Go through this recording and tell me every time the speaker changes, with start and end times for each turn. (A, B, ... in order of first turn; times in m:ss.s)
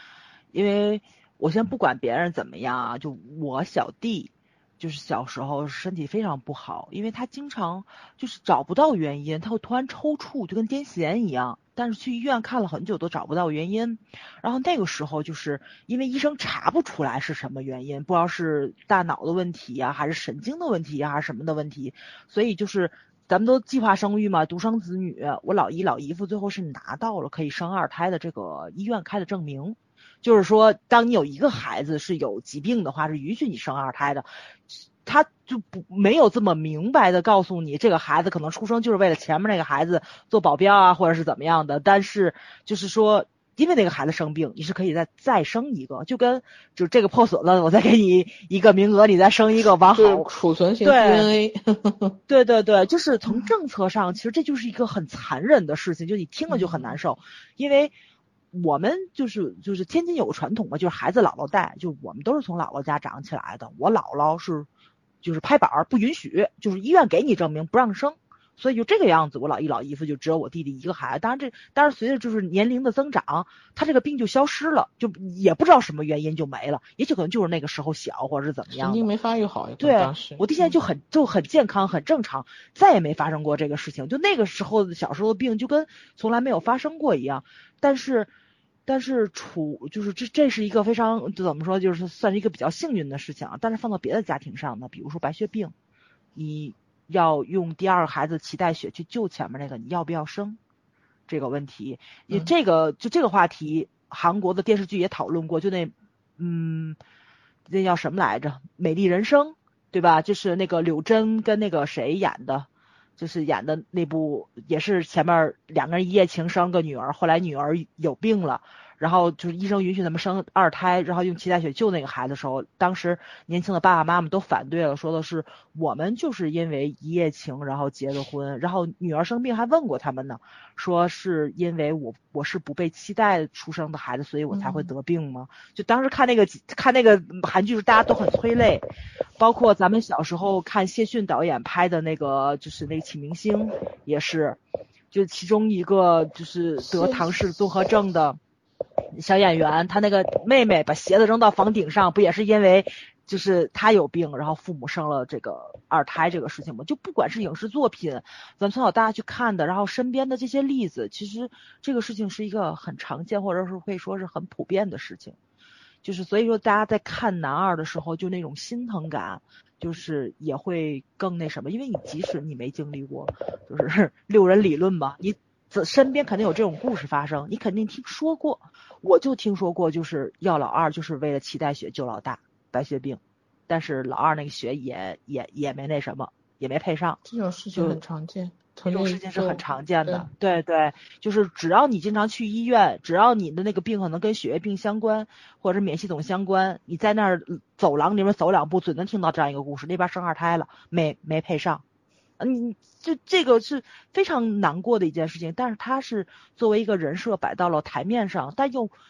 0:00.5-0:50.3 A
0:49.9-0:52.2 B
0:50.8-0:51.3 A
0:52.3-0:57.9 A
0:56.5-0:57.0 B
0:58.5-1:04.7 A
1:05.2-1:19.1 A
1:18.7-1:20.7 B
1:19.8-1:28.3 A
1:28.9-1:35.7 A
1:36.3-1:40.6 A
1:41.3-1:47.0 A
1:47.7-2:18.8 A
2:14.5-2:14.9 B
2:19.4-2:24.6 A
2:25.1-2:28.4 A
2:26.8-2:27.3 B
2:29.1-2:45.4 A
2:46.0-3:07.2 A
3:07.2-3:10.2 B
3:07.7-3:08.0 A
3:08.8-3:21.8 A
3:22.4-3:28.9 A